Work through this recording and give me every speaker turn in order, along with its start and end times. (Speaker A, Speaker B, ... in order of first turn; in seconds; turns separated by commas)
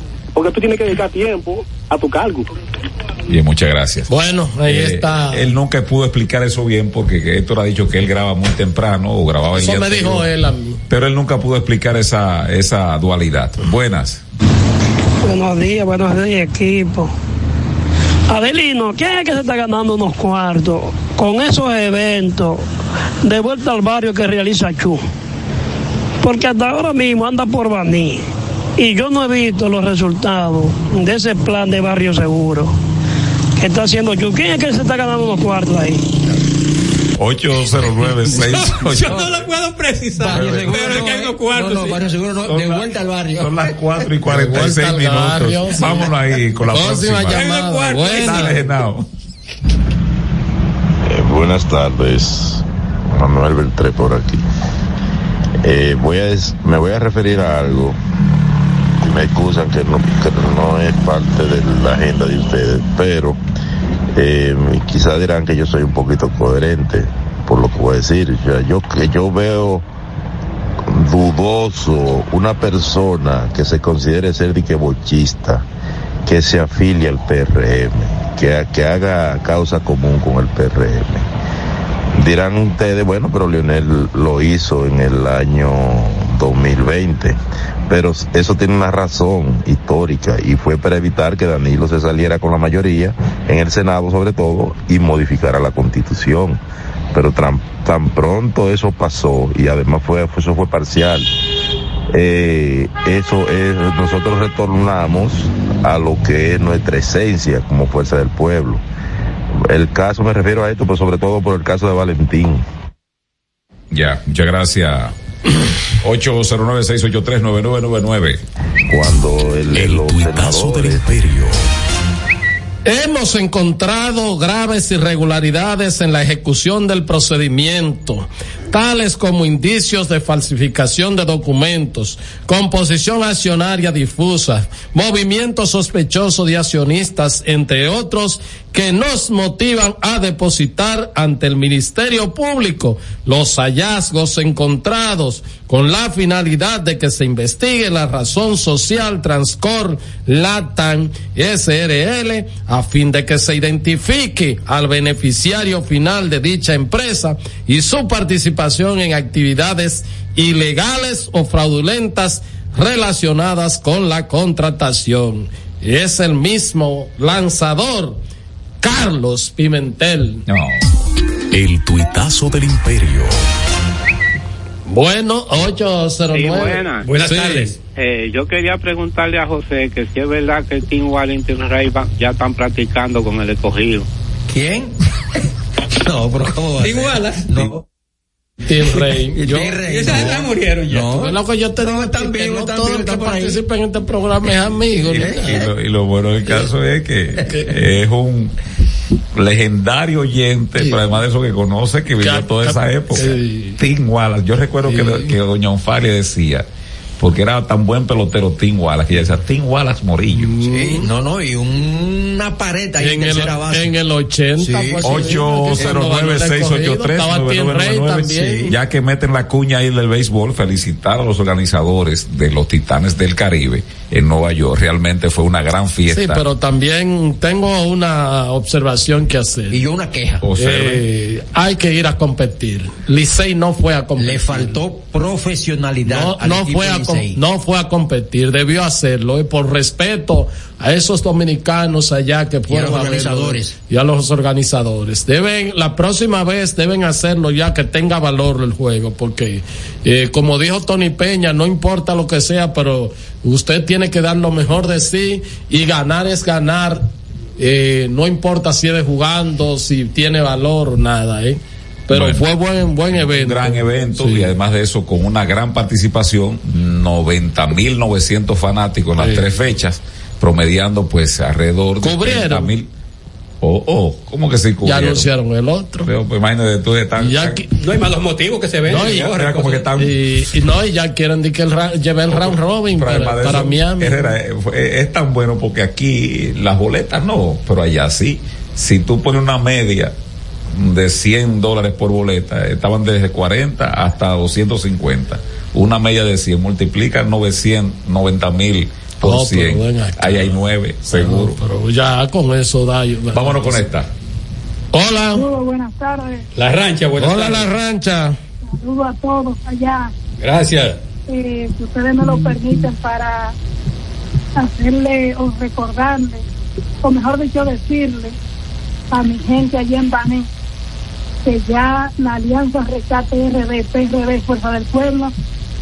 Speaker A: 0.3-2.5, Speaker B: 3.3-4.1, Speaker C: 4.1-5.5, Speaker B: 4.6-10.3, Speaker C: 9.6-10.8, Speaker B: 10.9-14.2, Speaker D: 15.2-17.1, Speaker D: 18.3-22.6, Speaker D: 23.2-25.0, Speaker D: 26.2-28.2, Speaker D: 28.8-32.7, Speaker D: 33.6-36.1, Speaker B: 37.2-39.2, Speaker E: 38.3-42.0, Speaker F: 40.2-43.7, Speaker B: 40.3-41.1, Speaker B: 42.5-47.4, Speaker C: 44.3-46.1, Speaker C: 46.7-48.6, Speaker E: 47.3-48.6, Speaker B: 48.1-49.1, Speaker G: 51.1-54.4, Speaker G: 55.6-58.0, Speaker G: 59.0-63.4, Speaker G: 64.2-69.8, Speaker G: 70.9-75.7, Speaker G: 76.3-81.3, Speaker G: 82.2-96.6, Speaker G: 97.1-101.3, Speaker G: 102.1-108.8, Speaker G: 109.6-112.6, Speaker B: 113.9-115.1, Speaker B: 116.0-118.4, Speaker G: 118.9-121.1, Speaker H: 119.7-121.6, Speaker C: 122.8-168.2, Speaker C: 168.8-170.4, Speaker B: 170.5-170.8, Speaker H: 171.5-173.4, Speaker C: 174.9-177.8, Speaker I: 176.3-177.1, Speaker E: 177.1-177.8, Speaker I: 177.9-184.1, Speaker F: 184.5-184.9, Speaker F: 186.0-187.8, Speaker E: 186.8-187.4, Speaker C: 188.7-189.8, Speaker F: 188.9-193.6, Speaker E: 189.9-191.3, Speaker C: 191.2-195.6, Speaker B: 195.0-198.5, Speaker F: 195.2-195.6, Speaker C: 197.4-197.7, Speaker B: 199.3-206.7, Speaker C: 202.2-203.8, Speaker C: 204.9-205.4, Speaker B: 207.2-210.6, Speaker C: 210.3-211.1, Speaker F: 210.7-213.9, Speaker C: 213.0-218.8, Speaker F: 214.6-215.9, Speaker B: 215.0-226.4, Speaker C: 226.1-229.8, Speaker F: 229.7-230.4, Speaker B: 230.4-231.1, Speaker C: 230.6-234.8, Speaker F: 234.2-237.4, Speaker C: 236.0-264.5, Speaker F: 242.7-243.7, Speaker B: 262.1-262.4, Speaker B: 263.1-272.9, Speaker C: 269.2-269.5, Speaker C: 272.0-272.7, Speaker B: 273.6-275.3, Speaker C: 274.9-276.1, Speaker B: 276.0-277.6, Speaker C: 277.2-277.7, Speaker E: 277.8-279.9, Speaker C: 278.9-279.3, Speaker B: 278.9-280.1, Speaker C: 280.0-284.3, Speaker B: 282.3-290.1, Speaker B: 290.7-301.6, Speaker C: 299.2-303.9, Speaker B: 303.3-304.1, Speaker C: 304.9-305.4, Speaker J: 305.3-306.4, Speaker E: 306.6-307.7, Speaker C: 307.2-308.4, Speaker J: 308.7-310.1, Speaker E: 310.4-311.0, Speaker J: 311.3-313.5, Speaker J: 314.6-316.4, Speaker J: 317.0-318.4, Speaker J: 319.1-320.5, Speaker J: 321.4-325.3